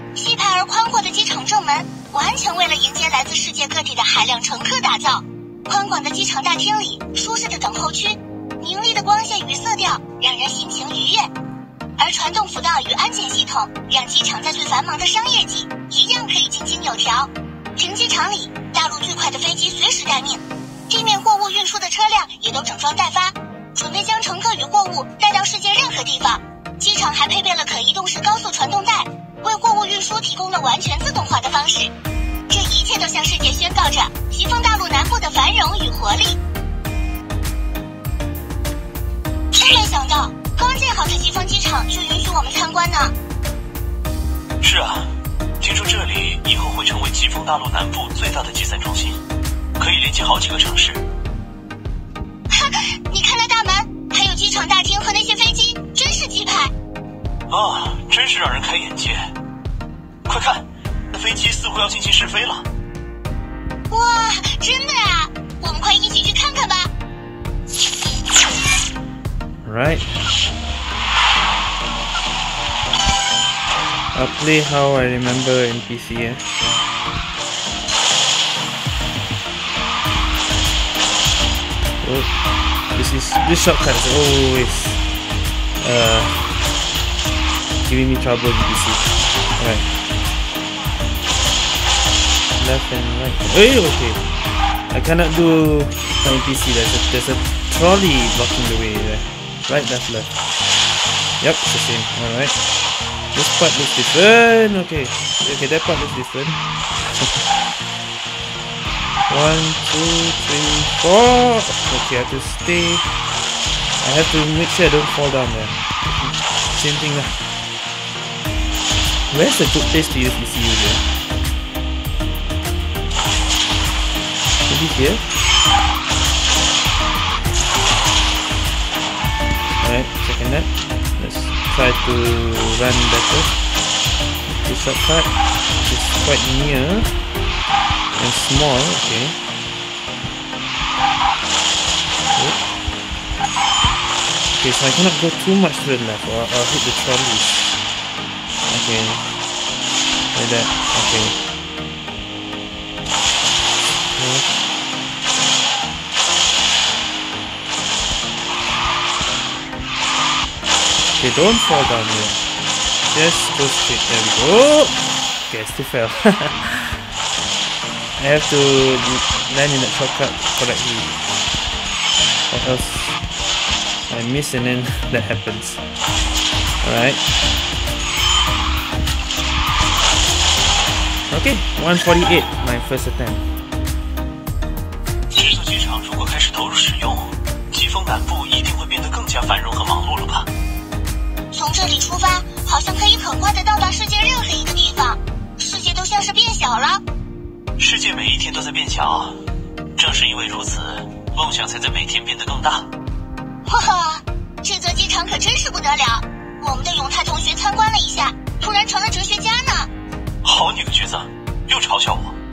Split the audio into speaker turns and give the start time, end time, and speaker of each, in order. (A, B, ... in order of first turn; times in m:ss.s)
0:00.1-0:11.3 A
0:12.0-0:31.9 A
0:32.5-0:36.4 A
0:39.5-0:43.1 A
0:44.6-0:49.2 B
0:49.8-0:51.0 B
0:52.5-0:56.7 A
0:57.5-0:59.3 B
1:00.2-1:02.7 B
1:03.9-1:06.9 A
1:09.6-1:10.0 C
1:14.1-1:16.4 C
1:22.0-1:22.3 C
1:22.9-1:25.0 C
1:25.8-1:26.6 C
1:27.8-1:29.9 C
1:32.6-1:34.2 C
1:34.9-1:40.3 C
1:41.4-1:42.6 C
1:43.3-1:46.6 C
1:49.3-1:53.1 C
1:54.0-1:57.4 C
1:59.3-2:01.0 C
2:04.7-2:05.2 C
2:09.8-2:13.6 C
2:14.6-2:17.1 C
2:18.2-2:19.4 C
2:22.3-2:22.6 C
2:24.6-2:27.7 C
2:28.7-2:29.3 C
2:30.3-2:31.4 C
2:34.2-2:34.5 C
2:41.1-2:42.4 C
2:43.1-2:47.0 C
2:48.2-2:51.2 C
2:52.5-2:53.2 C
2:54.0-2:55.8 C
2:56.8-2:57.2 C
3:01.3-3:03.5 C
3:05.3-3:10.5 B
3:11.5-3:17.0 A
3:17.8-3:19.4 B
3:20.0-3:22.9 B
3:23.6-3:29.9 A
3:30.4-3:32.4 B